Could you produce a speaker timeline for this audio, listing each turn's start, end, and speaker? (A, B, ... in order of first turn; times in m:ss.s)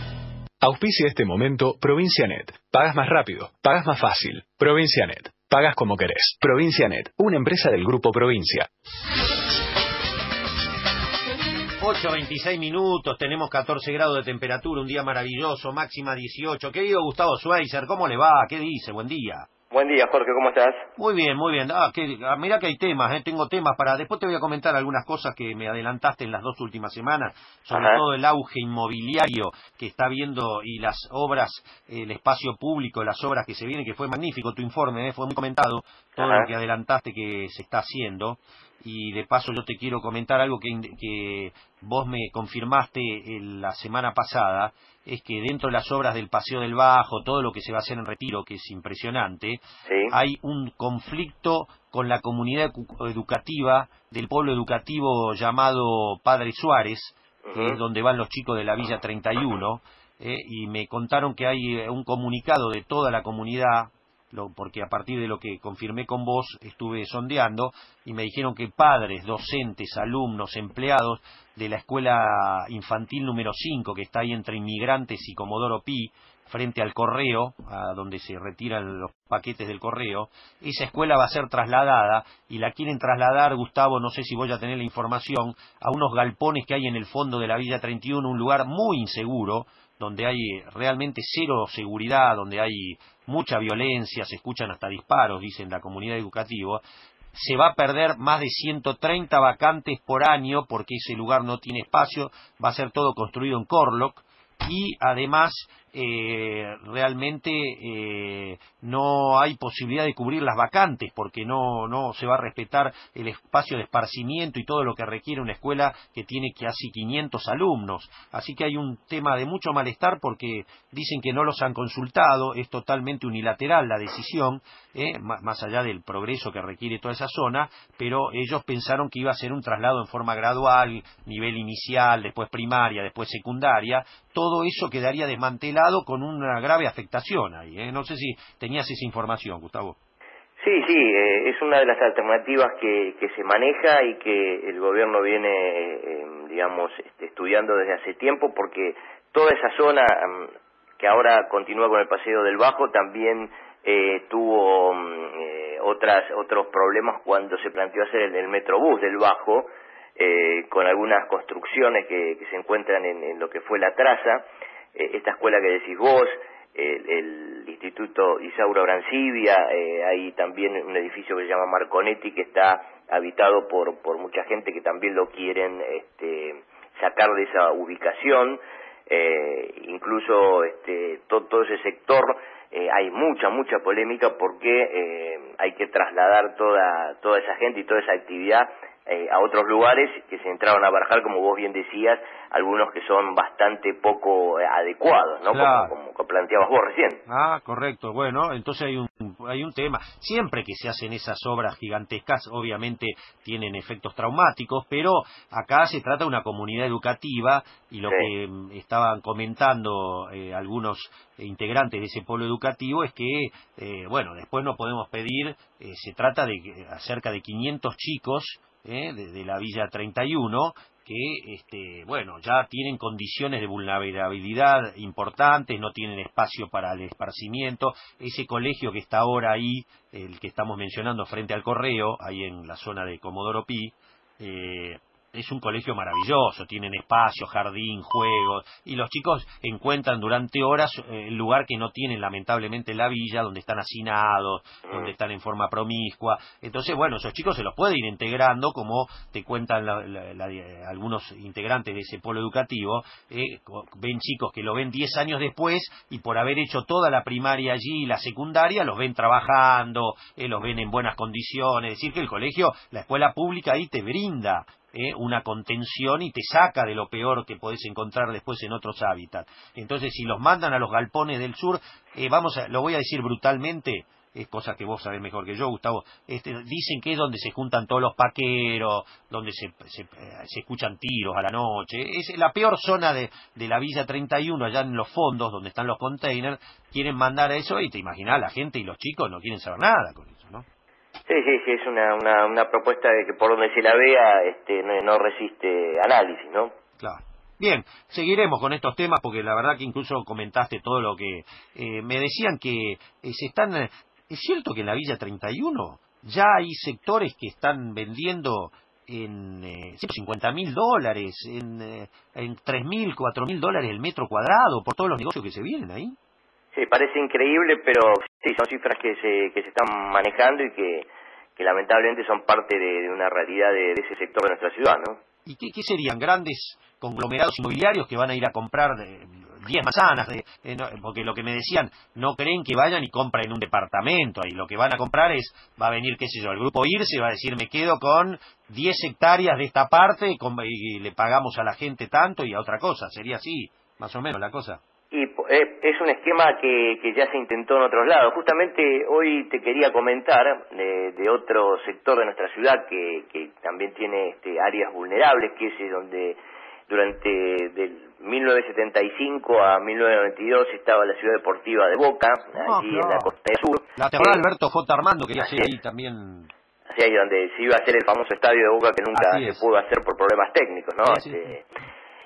0:00.6-0:08.7 A
0:11.8-0:19.5 B
0:19.7-0:20.9 C
0:21.0-1:36.8 B
0:27.7-0:28.0 C
0:36.2-0:36.5 C
0:49.8-0:50.2 C
0:57.4-0:57.8 C
1:37.3-2:20.0 B
2:20.6-3:17.2 C
3:15.5-3:15.9 B
3:17.3-4:50.6 B
3:28.1-3:28.3 C
4:04.9-4:05.1 C
4:51.3-4:56.7 C
4:57.0-5:16.2 B
5:16.7-5:25.2 C
5:25.5-5:44.8 B
5:45.1-6:04.4 C
6:02.6-6:03.3 B
6:04.0-6:06.5 B
6:05.4-6:05.7 C
6:06.9-6:11.6 C
6:09.1-6:09.7 B
6:11.0-6:11.4 B